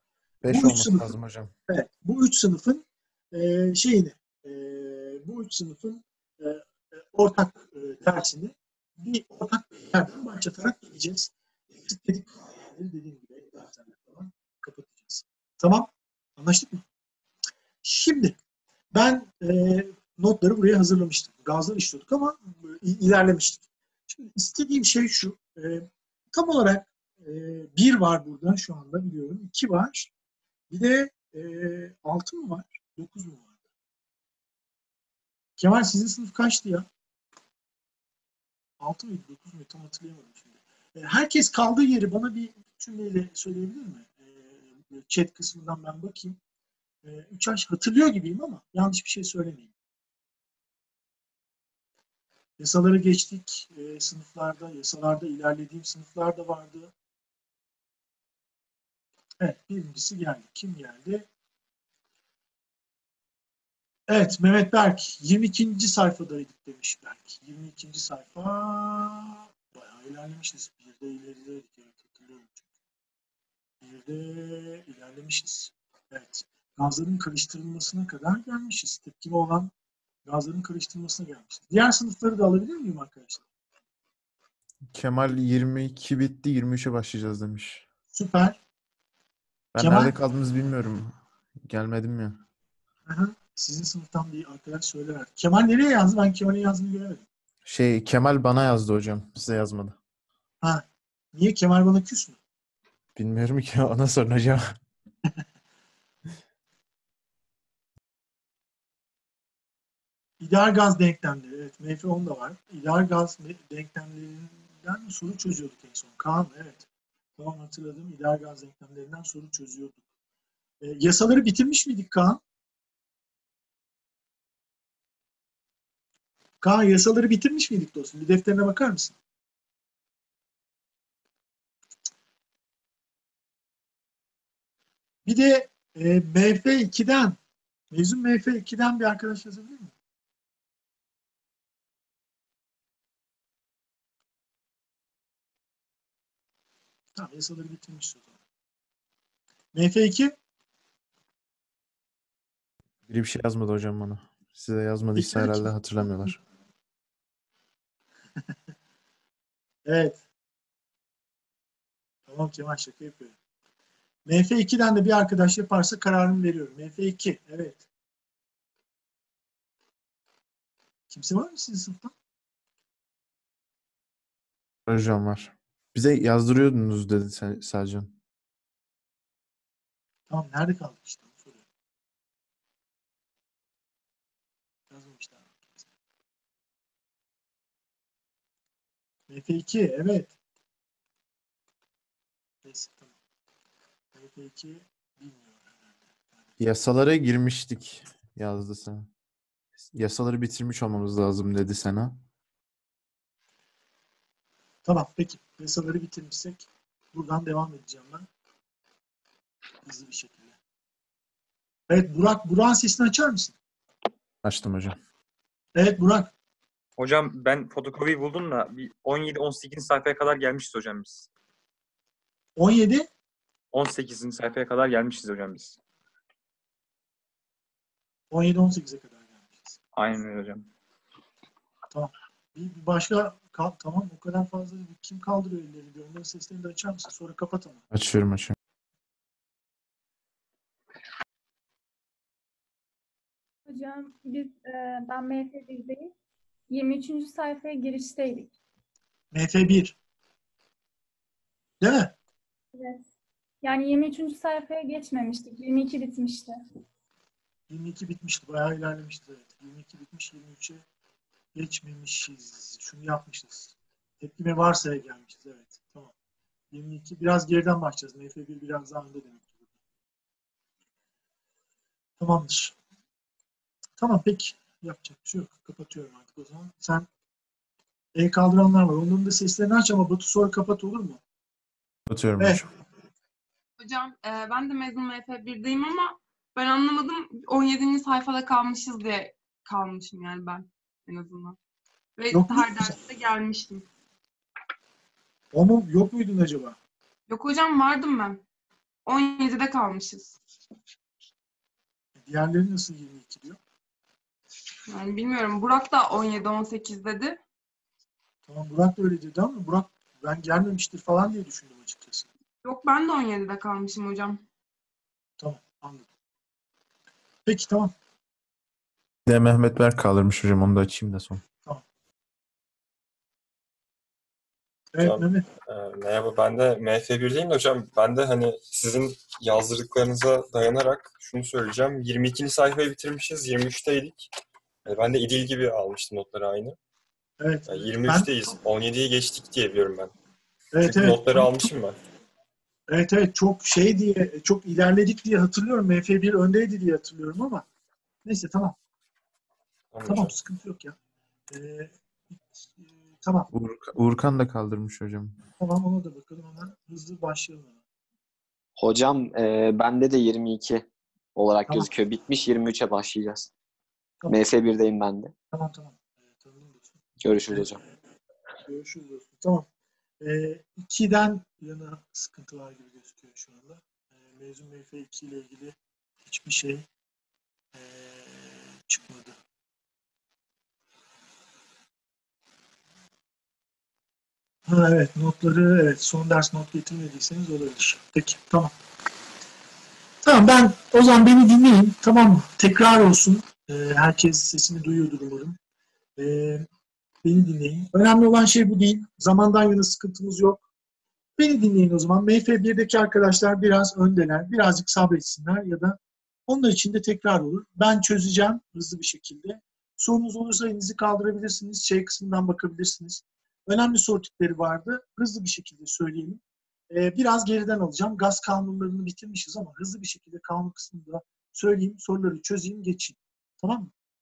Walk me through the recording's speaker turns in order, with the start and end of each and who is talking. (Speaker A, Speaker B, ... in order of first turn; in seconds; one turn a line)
Speaker A: 0.4-1.5
Speaker B: 0.5-1.1
Speaker B: 1.7-11.3
Speaker B: 11.8-16.8
Speaker B: 17.8-18.4
Speaker B: 18.9-30.1
Speaker B: 30.7-33.5
Speaker B: 35.6-36.9
Speaker B: 38.8-46.4
Speaker B: 47.0-49.7
Speaker B: 52.6-56.9
Speaker B: 59.4-61.3
Speaker B: 64.1-72.6
Speaker B: 73.8-79.7
Speaker B: 80.2-83.4
Speaker A: 84.9-87.8
Speaker B: 88.1-88.6
Speaker A: 89.7-92.4
Speaker B: 89.8-90.1
Speaker B: 93.1-97.2
Speaker A: 97.6-100.0
Speaker B: 100.6-102.4
Speaker A: 103.1-104.8
Speaker B: 110.4-116.8
Speaker B: 117.4-120.0
Speaker B: 120.8-122.4
Speaker B: 126.6-129.2
Speaker B: 135.2-137.4
Speaker B: 137.9-139.9
Speaker B: 147.1-148.3
Speaker B: 149.7-150.3
Speaker A: 153.1-156.4
Speaker B: 155.1-156.3
Speaker B: 159.9-160.2
Speaker B: 162.3-163.3
Speaker B: 164.2-167.8
Speaker B: 171.1-172.1
Speaker A: 174.9-178.1
Speaker B: 180.3-181.6
Speaker B: 184.9-185.9
Speaker B: 189.3-190.3
Speaker B: 192.6-193.1
Speaker B: 194.1-196.5
Speaker A: 196.6-199.1
Speaker A: 199.9-202.2
Speaker B: 204.8-208.3
Speaker B: 209.8-210.6
Speaker B: 211.9-213.5
Speaker A: 214.4-215.0
Speaker B: 215.8-216.3
Speaker C: 217.0-221.3
Speaker B: 222.6-223.1
Speaker C: 223.7-225.8
Speaker B: 228.3-229.8
Speaker C: 229.9-230.7
Speaker B: 231.9-237.8
Speaker A: 237.9-238.5
Speaker D: 243.7-246.1
Speaker D: 246.7-248.5
Speaker B: 249.3-249.9
Speaker B: 251.8-252.1
Speaker D: 252.7-253.1
Speaker D: 253.6-256.6
Speaker B: 257.7-260.8
Speaker B: 261.5-266.1
Speaker B: 266.7-269.6
Speaker B: 272.2-272.8
Speaker B: 274.0-277.1
Speaker B: 278.1-281.2
Speaker A: 282.1-282.7
Speaker E: 283.8-291.6
Speaker E: 292.2-293.9
Speaker B: 292.3-292.9
Speaker B: 295.5-296.8
Speaker E: 297.3-298.4
Speaker E: 299.1-300.3
Speaker B: 302.2-303.6
Speaker E: 304.9-307.4
Speaker B: 308.5-312.3
Speaker E: 312.6-314.4
Speaker B: 315.4-316.1
Speaker B: 317.4-317.9
Speaker A: 319.2-321.4
Speaker B: 324.9-325.4
Speaker F: 325.0-334.3
Speaker F: 334.9-336.8
Speaker B: 337.4-338.3
Speaker F: 337.7-340.1
Speaker B: 340.7-341.6
Speaker F: 340.8-342.0
Speaker B: 342.9-347.6
Speaker B: 348.2-348.8
Speaker F: 349.9-350.3
Speaker B: 350.0-350.9
Speaker B: 351.5-353.5
Speaker A: 353.5-355.4
Speaker B: 355.6-357.8
Speaker G: 358.8-363.5
Speaker G: 364.3-365.3
Speaker B: 365.5-367.8
Speaker G: 367.2-367.8
Speaker B: 368.6-369.7
Speaker B: 370.2-376.9
Speaker B: 377.7-379.4
Speaker B: 384.7-388.7
Speaker B: 390.2-395.6
Speaker B: 396.2-396.6
Speaker B: 397.2-400.6
Speaker B: 401.4-423.9